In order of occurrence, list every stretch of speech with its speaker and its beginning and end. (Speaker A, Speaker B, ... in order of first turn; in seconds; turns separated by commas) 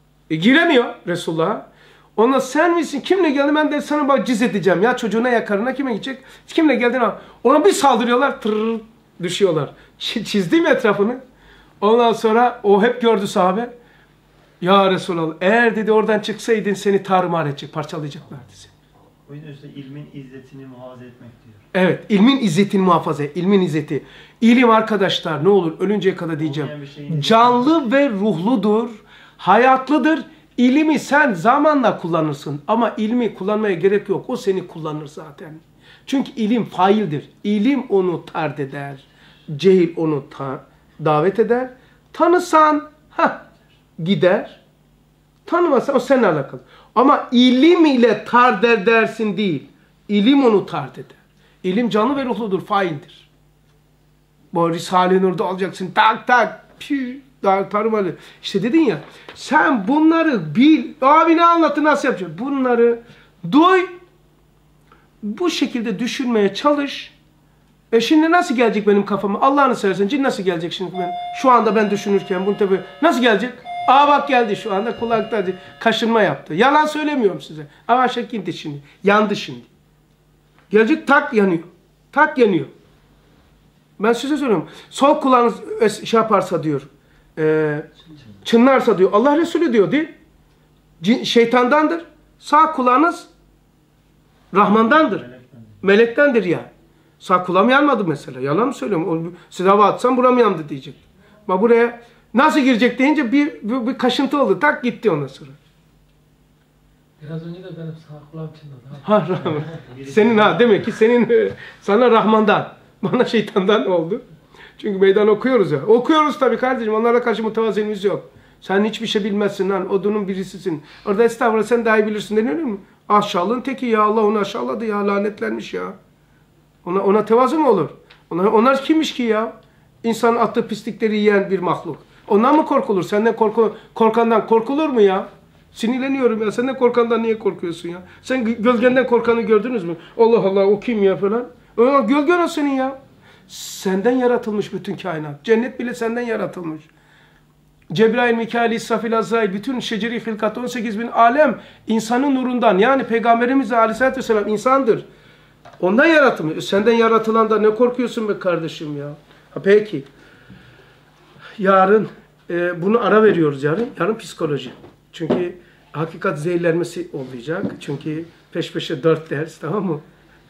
Speaker A: 0.3-11.2, Speaker A: 11.8-13.7, Speaker A: 14.6-18.7, Speaker B: 19.3-21.6, Speaker A: 21.7-43.5, Speaker B: 26.4-27.8, Speaker A: 44.0-44.6, Speaker A: 45.5-53.3, Speaker A: 54.5-63.9, Speaker A: 65.2-67.1, Speaker A: 67.9-79.7, Speaker A: 80.7-82.7, Speaker A: 84.0-87.9, Speaker A: 88.4-90.1, Speaker A: 91.0-93.3, Speaker A: 94.5-95.2, Speaker B: 94.6-95.8, Speaker A: 95.8-96.7, Speaker A: 97.2-105.6, Speaker C: 107.2-109.8, Speaker A: 109.0-114.2, Speaker B: 109.7-110.9, Speaker A: 114.8-126.0, Speaker A: 126.8-146.9, Speaker A: 147.9-155.1, Speaker A: 155.8-160.1, Speaker A: 161.6-170.0